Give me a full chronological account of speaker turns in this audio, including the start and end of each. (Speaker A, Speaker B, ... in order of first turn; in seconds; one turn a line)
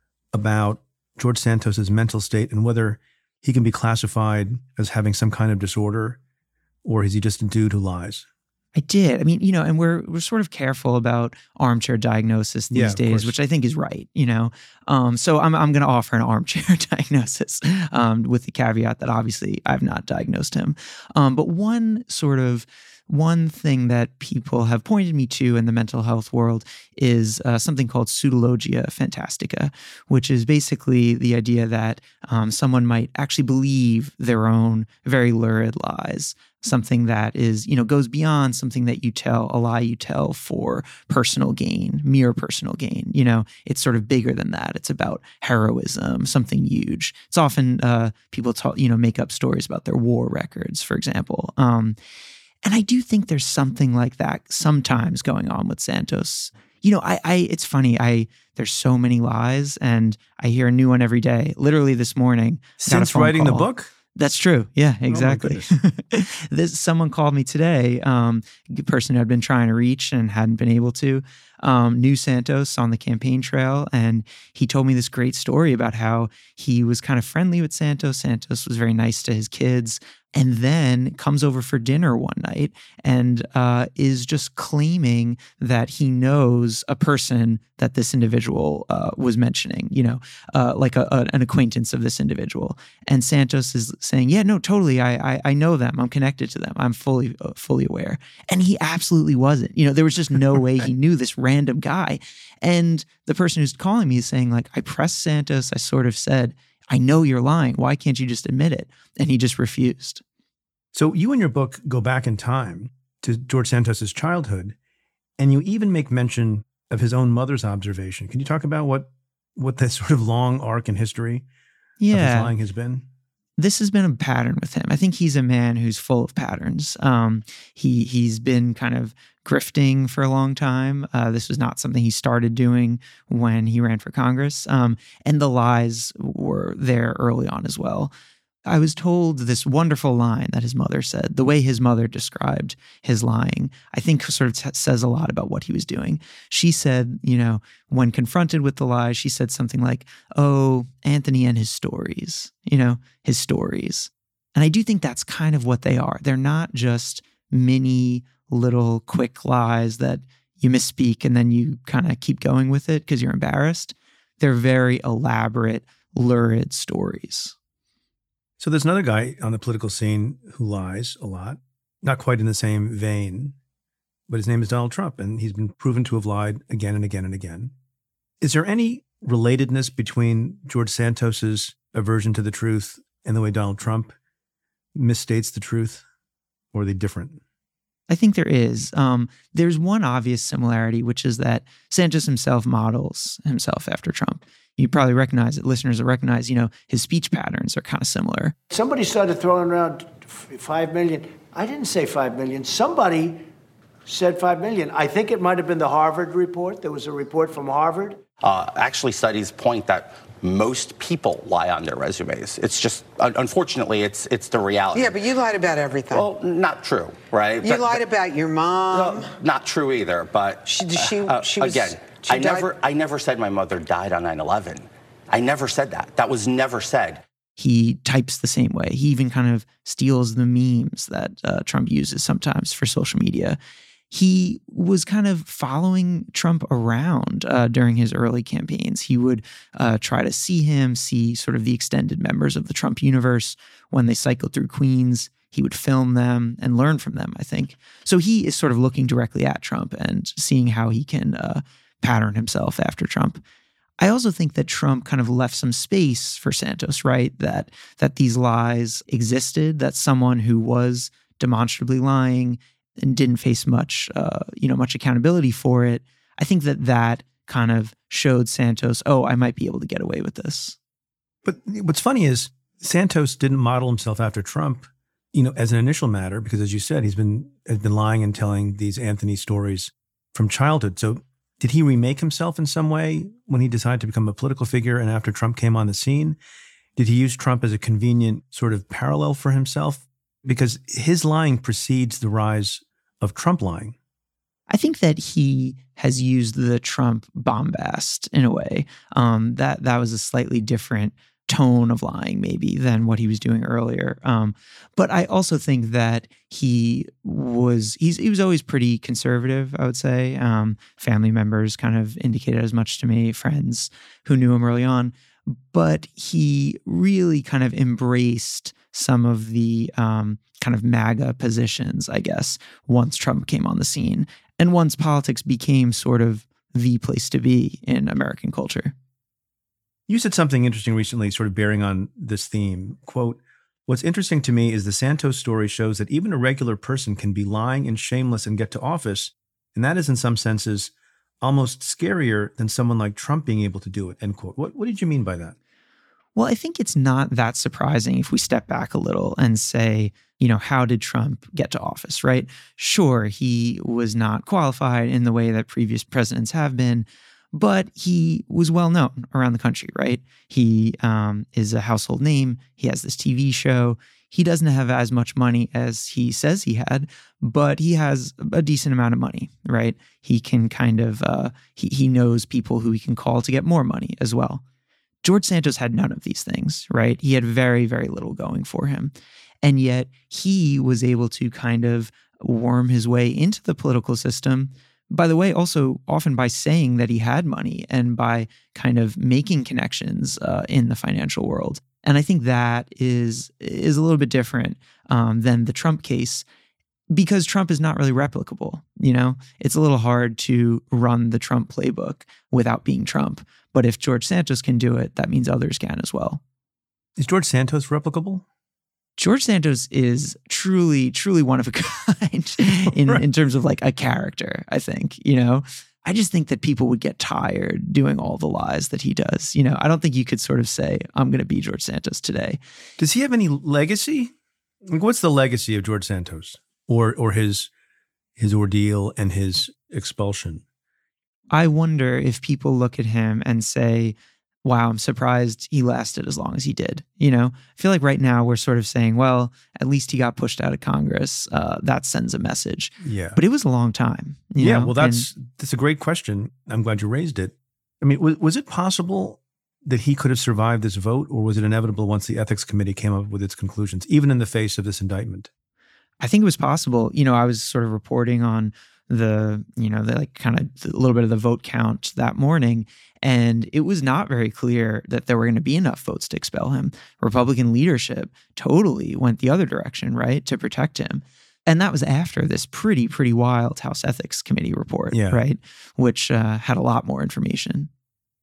Speaker A: 0.3-6.2
Speaker A: 6.8-8.2
Speaker B: 8.7-52.0
Speaker A: 12.7-13.3
Speaker B: 52.6-110.2
Speaker A: 62.8-63.9
Speaker A: 65.1-65.7
Speaker A: 110.9-114.8
Speaker A: 115.4-121.4
Speaker B: 122.0-122.5
Speaker A: 122.1-123.0
Speaker B: 123.6-138.1
Speaker B: 138.7-167.5
Speaker A: 168.6-173.5
Speaker A: 174.3-177.7
Speaker A: 178.4-184.1
Speaker A: 184.9-186.0
Speaker A: 186.7-187.4
Speaker B: 188.1-198.5
Speaker C: 198.7-203.4
Speaker C: 204.1-208.2
Speaker D: 208.4-215.2
Speaker E: 214.9-216.3
Speaker D: 216.1-218.0
Speaker E: 217.6-219.4
Speaker D: 218.9-227.2
Speaker E: 220.7-222.7
Speaker B: 227.6-233.6
Speaker B: 234.1-253.4
Speaker B: 254.0-270.8
Speaker A: 271.4-286.4
Speaker A: 286.9-293.9
Speaker B: 294.7-328.9
Speaker A: 330.1-345.5
Speaker B: 346.4-374.6
Speaker B: 375.2-396.4
Speaker B: 397.1-406.4
Speaker A: 407.2-408.4
Speaker B: 409.2-422.6
Speaker A: 412.9-413.2
Speaker A: 423.0-424.3
Speaker A: 424.9-427.7
Speaker A: 428.4-430.6
Speaker B: 431.5-445.3
Speaker A: 443.0-443.4
Speaker A: 444.6-455.5
Speaker B: 456.2-477.9
Speaker A: 475.1-475.4